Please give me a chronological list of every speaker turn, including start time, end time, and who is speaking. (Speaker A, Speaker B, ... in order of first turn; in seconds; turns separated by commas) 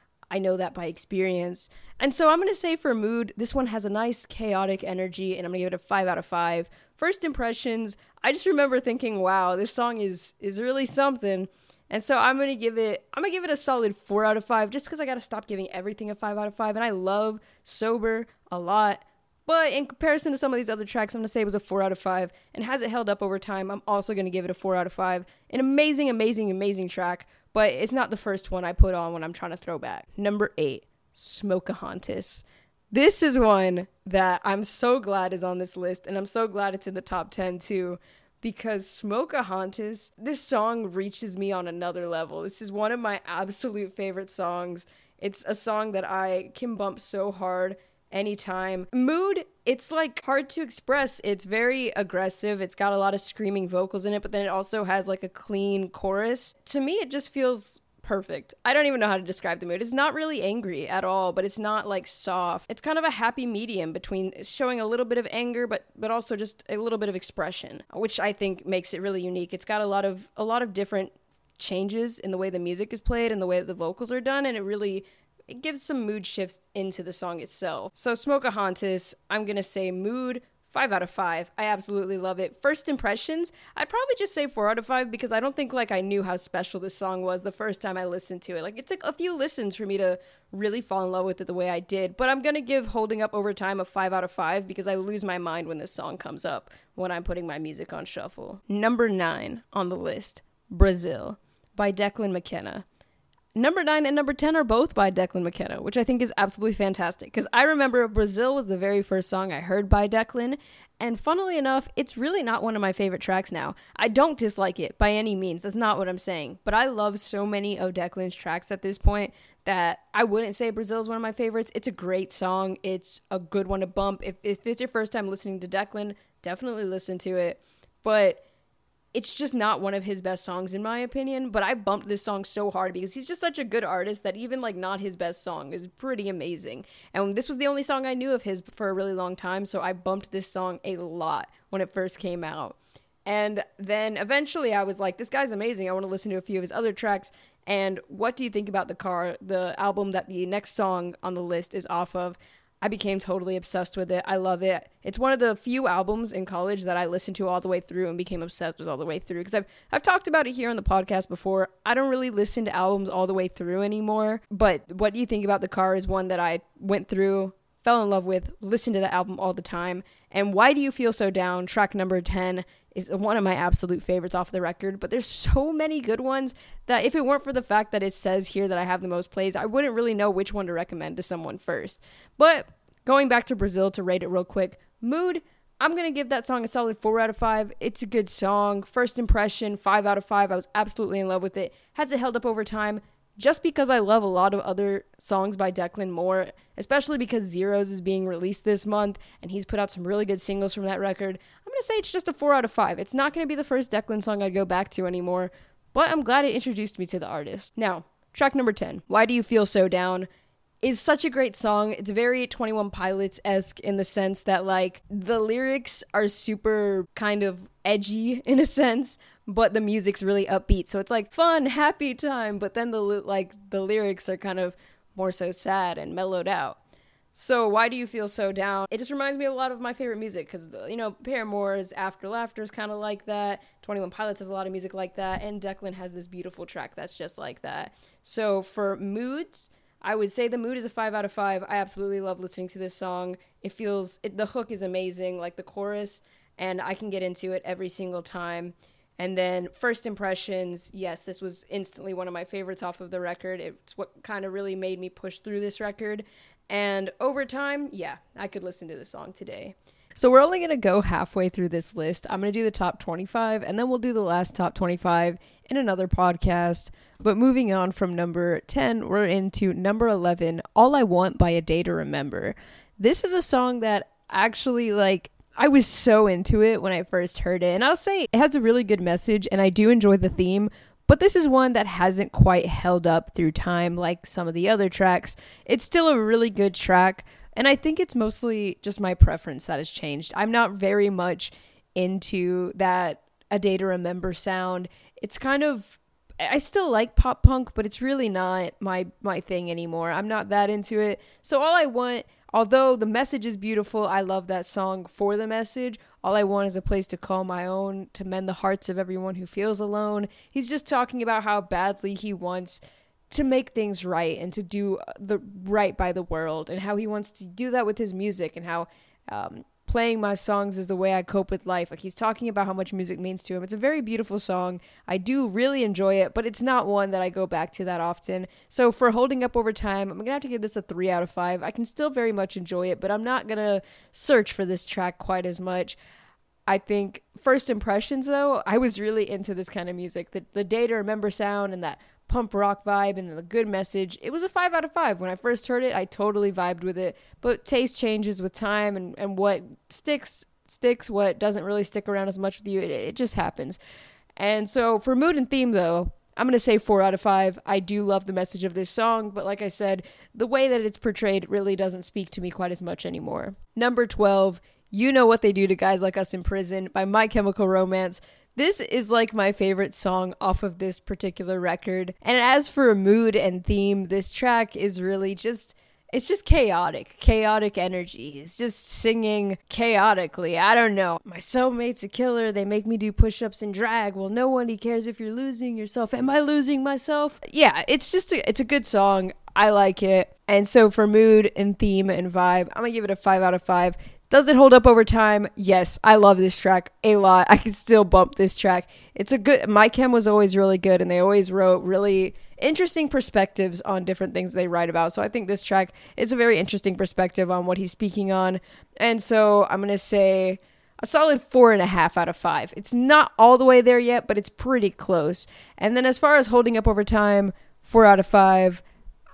Speaker A: 0.3-102.8, Speaker A: 103.5-128.4, Speaker A: 129.1-210.3, Speaker A: 210.8-226.8, Speaker A: 227.3-336.0, Speaker A: 336.7-353.8, Speaker A: 354.4-418.8